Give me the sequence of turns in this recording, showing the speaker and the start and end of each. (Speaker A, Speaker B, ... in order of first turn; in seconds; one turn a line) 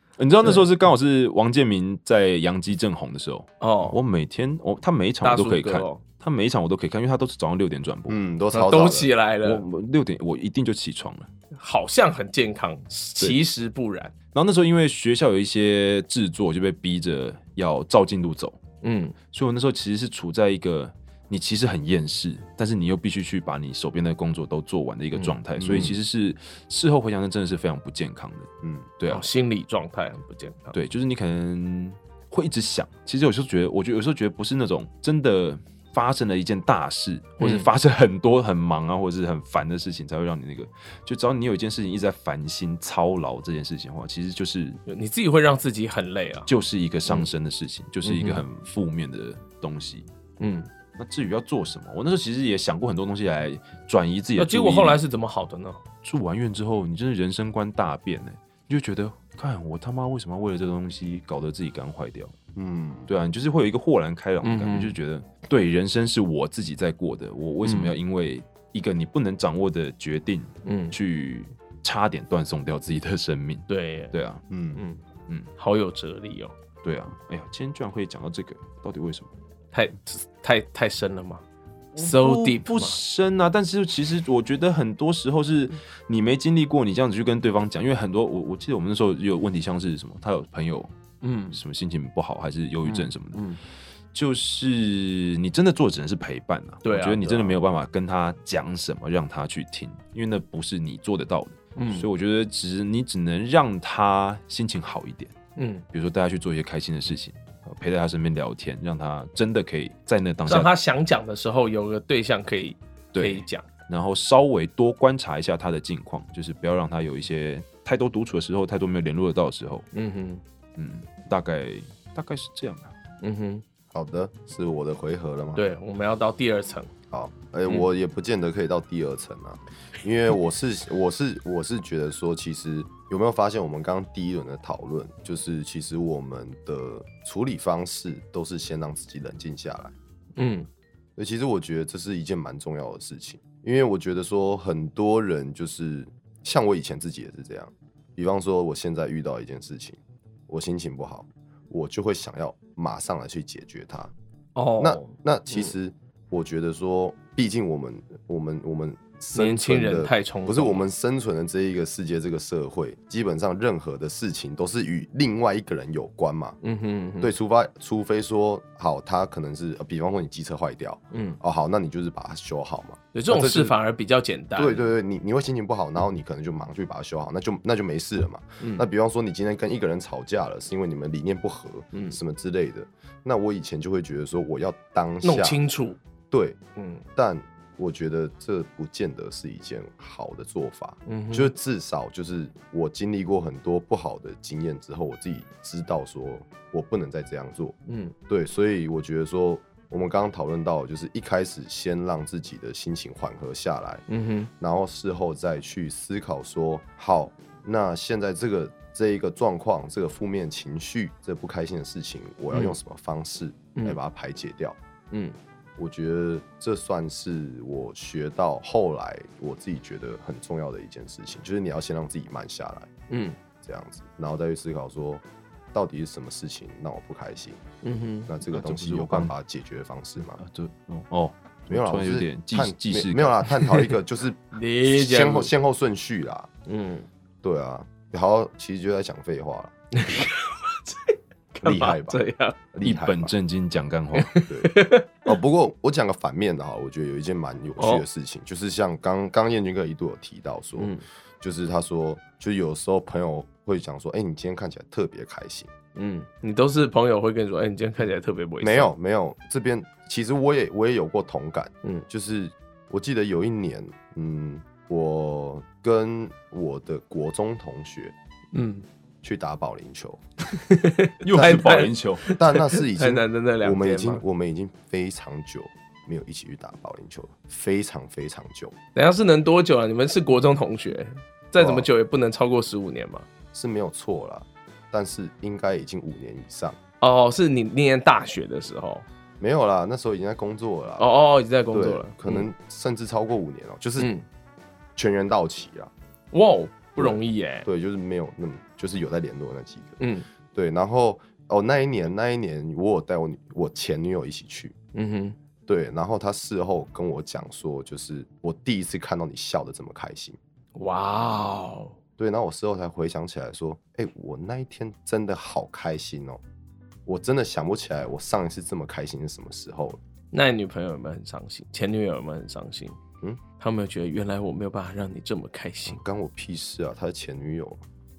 Speaker A: 0.2-8.2
Speaker B: 3.6-4.0
Speaker B: 5.2-6.0
Speaker C: 8.1-9.1
Speaker B: 8.5-9.6
Speaker A: 9.4-11.3
Speaker B: 11.6-14.1
Speaker A: 14.3-18.6
Speaker B: 18.8-19.2
Speaker A: 19.3-29.3
Speaker C: 25.6-26.0
Speaker C: 28.6-28.9
Speaker B: 29.1-30.8
Speaker A: 30.7-44.8
Speaker B: 37.4-37.7
Speaker B: 44.9-46.5
Speaker A: 46.5-50.1
Speaker B: 48.0-48.4
Speaker B: 50.4-50.7
Speaker A: 51.0-55.0
Speaker B: 54.4-55.8
Speaker A: 56.0-62.3
Speaker C: 62.5-63.1
Speaker A: 63.1-74.4
Speaker B: 64.4-65.0
Speaker B: 67.6-68.0
Speaker B: 70.7-71.0
Speaker B: 73.7-74.1
Speaker C: 74.5-74.8
Speaker B: 74.8-75.0
Speaker B: 75.6-76.5
Speaker A: 76.8-79.3
Speaker B: 79.7-81.4
Speaker A: 82.0-90.9
Speaker B: 82.0-83.0
Speaker B: 91.2-91.6
Speaker A: 91.5-93.4
Speaker B: 92.8-93.6
Speaker A: 94.1-105.3
Speaker B: 96.8-97.6
Speaker B: 101.8-102.1
Speaker B: 105.6-105.8
Speaker A: 105.9-110.7
Speaker B: 110.5-113.7
Speaker A: 113.1-119.9
Speaker B: 119.9-120.4
Speaker A: 120.8-122.9
Speaker B: 123.2-123.6
Speaker C: 123.9-125.6
Speaker B: 125.6-126.9
Speaker C: 127.1-139.9
Speaker B: 140.4-140.7
Speaker C: 141.2-154.1
Speaker B: 154.6-155.7
Speaker C: 154.8-166.6
Speaker B: 159.3-160.9
Speaker B: 166.6-167.3
Speaker C: 167.2-173.7
Speaker B: 171.1-171.4
Speaker B: 173.1-174.8
Speaker C: 174.6-185.6
Speaker B: 178.6-178.9
Speaker B: 181.9-182.2
Speaker B: 185.2-186.0
Speaker C: 186.3-186.6
Speaker B: 186.8-187.1
Speaker C: 187.2-197.8
Speaker B: 191.1-191.5
Speaker B: 197.9-198.2
Speaker C: 198.3-204.1
Speaker B: 204.1-204.5
Speaker C: 204.6-214.8
Speaker B: 215.1-215.4
Speaker C: 215.8-222.9
Speaker B: 223.1-223.4
Speaker C: 223.6-227.6
Speaker B: 227.8-228.3
Speaker C: 228.3-230.4
Speaker A: 228.5-229.3
Speaker A: 230.4-233.5
Speaker C: 231.7-236.5
Speaker B: 234.5-235.5
Speaker B: 236.7-237.1
Speaker C: 237.4-239.7
Speaker B: 239.9-242.6
Speaker C: 241.6-243.3
Speaker A: 242.8-244.3
Speaker B: 244.1-245.2
Speaker C: 244.5-255.7
Speaker B: 247.8-248.0
Speaker B: 250.8-251.0
Speaker B: 255.9-258.9
Speaker C: 258.6-268.1
Speaker B: 268.5-268.9
Speaker C: 269.2-270.2
Speaker B: 270.5-274.2
Speaker A: 271.2-272.2
Speaker C: 272.4-278.8
Speaker B: 278.9-283.3
Speaker C: 281.6-281.9
Speaker C: 283.5-286.8
Speaker B: 287.0-289.1
Speaker C: 289.4-291.1
Speaker B: 291.0-292.5
Speaker C: 291.7-294.1
Speaker B: 294.0-294.2
Speaker C: 295.0-295.9
Speaker B: 296.3-297.7
Speaker C: 297.0-300.0
Speaker B: 300.0-300.3
Speaker C: 300.5-304.8
Speaker B: 304.9-305.4
Speaker C: 305.7-310.4
Speaker B: 310.8-311.9
Speaker C: 312.2-316.4
Speaker C: 317.1-320.0
Speaker B: 320.3-323.0
Speaker B: 323.6-326.0
Speaker C: 325.9-327.8